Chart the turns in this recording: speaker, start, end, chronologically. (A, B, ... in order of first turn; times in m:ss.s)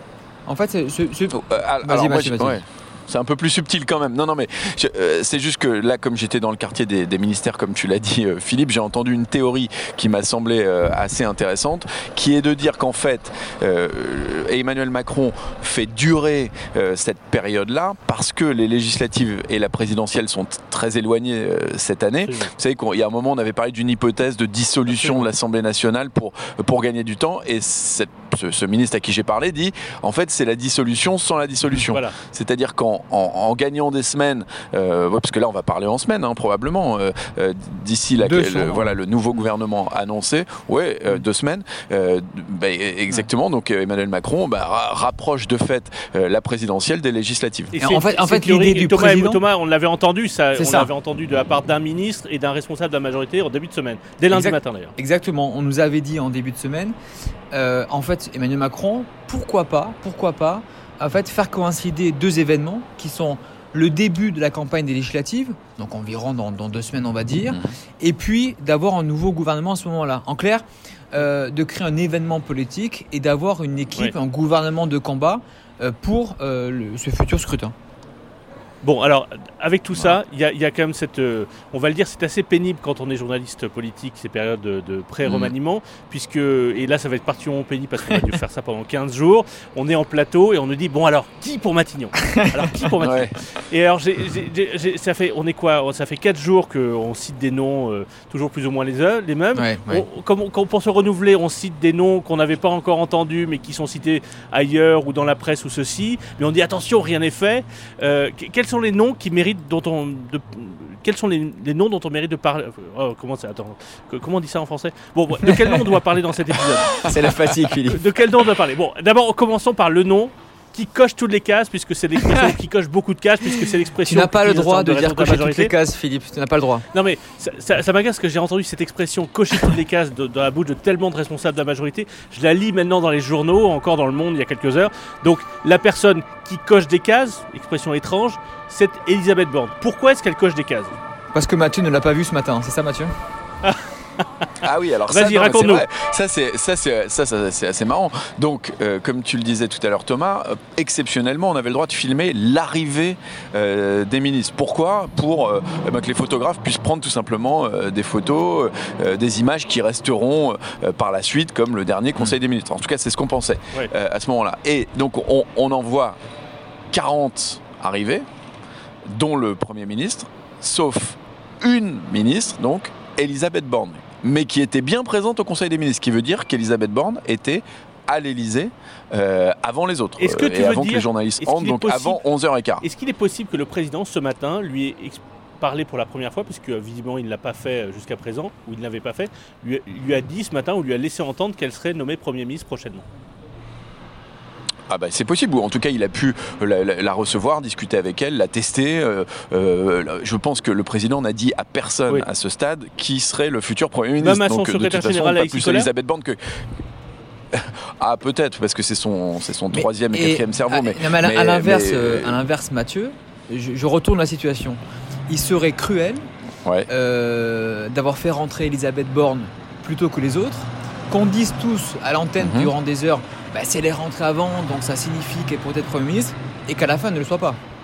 0:00.5-0:02.6 A
0:01.3-0:47.8 B
0:22.2-0:22.5 C
0:24.9-0:25.3 C
0:31.8-0:32.2 C
0:38.2-0:39.0 A
0:47.8-0:54.9 C
0:47.8-0:49.4 A
0:50.6-0:50.9 A
0:54.3-0:57.0 A
0:57.5-1:17.7 A
1:07.5-1:07.7 B
1:18.8-1:57.0 C
1:25.2-1:25.5 B
1:33.0-1:33.4 B
1:39.6-1:40.1 A
1:56.9-1:58.0 A
1:57.9-2:05.7 C
2:02.2-2:02.5 A
2:04.0-2:06.9 A
2:06.9-2:21.0 C
2:21.3-2:23.1 A
2:24.6-2:46.2 B
2:25.1-2:25.9 C
2:46.9-2:48.2 B
2:49.1-3:02.8 B
3:00.2-3:02.2 C
3:02.8-3:13.0 C
3:14.9-3:26.4 B
3:24.2-3:25.9 C
3:27.5-3:32.4 B
3:29.7-3:36.3 A
3:36.9-3:47.6 A
3:42.4-3:42.7 B